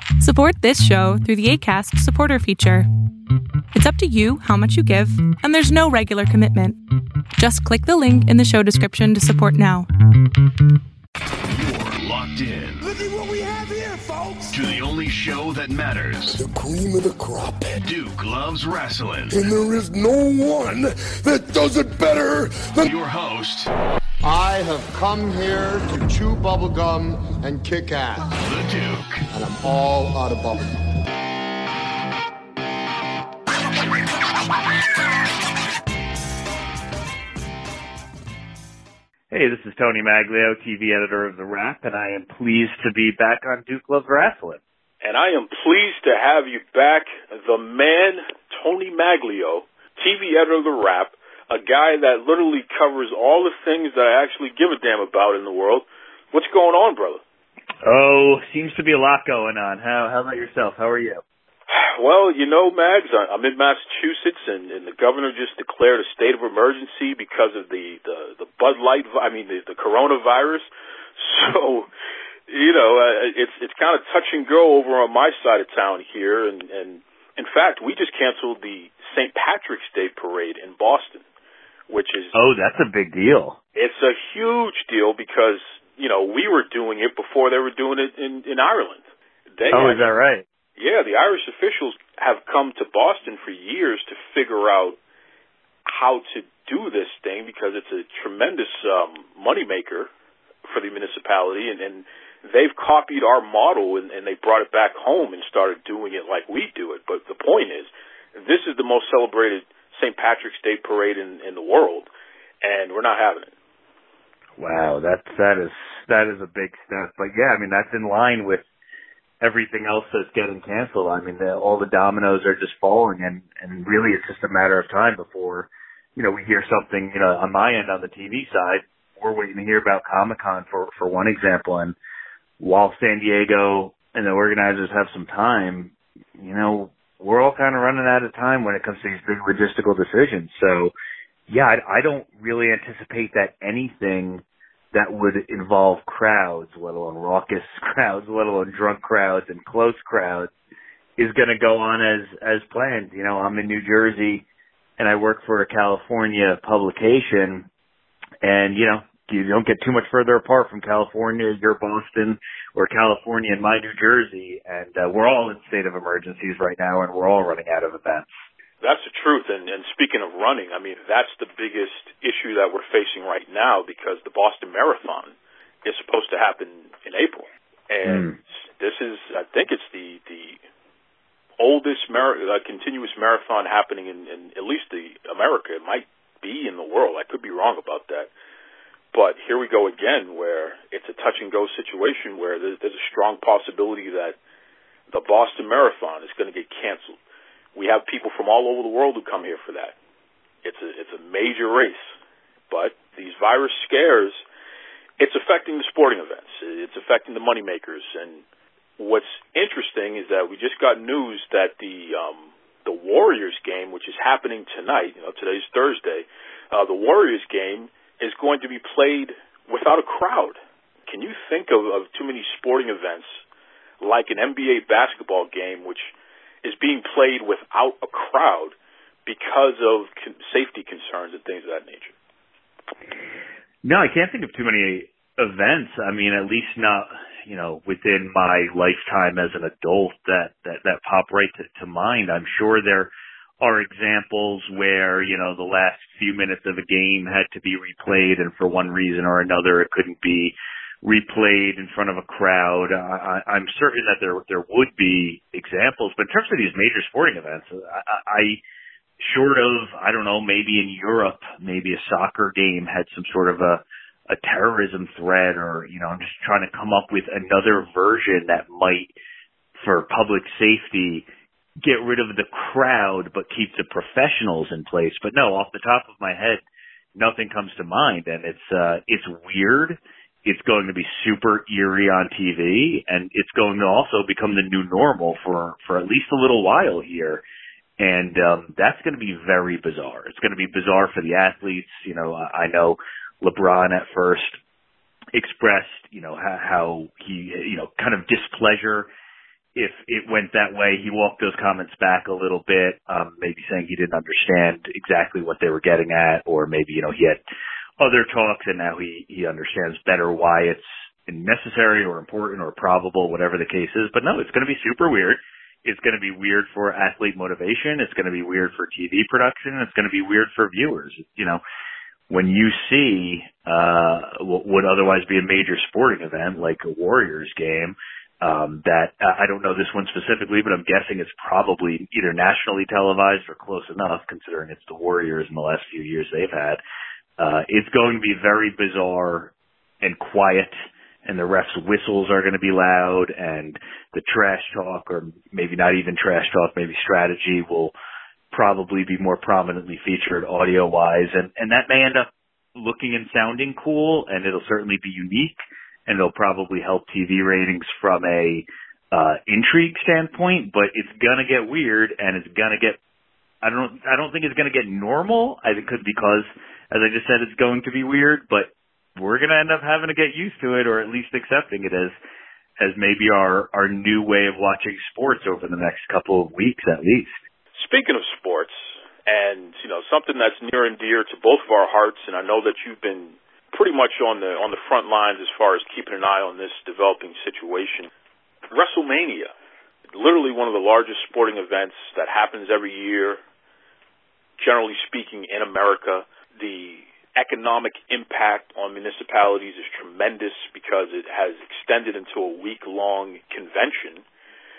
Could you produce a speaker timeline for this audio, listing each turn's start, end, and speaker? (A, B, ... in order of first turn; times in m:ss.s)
0:00.2-0:02.9 A
0:03.7-0:06.8 A
0:07.4-0:09.9 A
0:11.5-0:12.9 B
0:12.8-0:14.5 C
0:14.5-0:16.4 B
0:16.3-0:17.8 C
0:17.8-0:19.4 B
0:19.3-0:22.9 C
0:22.8-0:23.7 B
0:24.2-0:28.3 D
0:28.4-0:29.3 B
0:29.3-0:30.9 D
0:39.3-0:44.6 E
0:45.0-0:57.2 F
0:57.8-1:01.2 E
1:01.7-1:10.7 F
1:11.2-1:11.9 F
1:12.5-1:21.2 F
1:21.9-1:22.4 F
1:22.3-1:23.6 E
1:23.8-1:29.0 F
1:29.6-1:30.0 F
1:29.7-1:30.4 E
1:30.8-1:35.0 F
1:35.9-1:40.1 F
1:40.7-1:52.1 F
1:52.6-1:53.5 F
1:54.6-1:58.6 E
1:59.4-2:12.0 E
2:12.6-2:20.9 E
2:21.5-2:30.5 E
2:31.2-2:34.4 E
2:35.0-2:37.7 E
2:38.4-2:48.3 E
2:48.8-2:55.3 F
2:55.8-3:00.6 F
2:58.0-2:58.4 E
3:01.6-3:08.3 F
3:09.1-3:14.4 F
3:15.1-3:17.2 F
3:17.8-3:20.0 F
3:20.6-3:22.1 F
3:22.7-3:24.4 F
3:25.2-3:28.4 F
3:29.0-3:43.4 F
3:44.0-3:46.1 F
3:46.6-3:48.7 F
3:49.3-3:52.1 F
3:53.8-4:18.6 E
4:19.2-4:29.1 E
4:29.8-4:31.3 E
4:31.8-4:36.6 E
4:37.2-4:47.4 E
4:48.0-4:54.6 E
4:55.3-4:59.1 E
4:59.8-5:07.4 E
5:08.0-5:21.6 E
5:22.3-5:36.8 E
5:37.4-5:40.7 E
5:41.2-5:47.9 E
5:48.5-6:03.0 E
6:03.6-6:12.2 E
6:12.8-6:17.4 E
6:17.8-6:28.1 F
6:28.7-6:29.5 F
6:30.1-6:33.4 F
6:34.6-6:44.2 F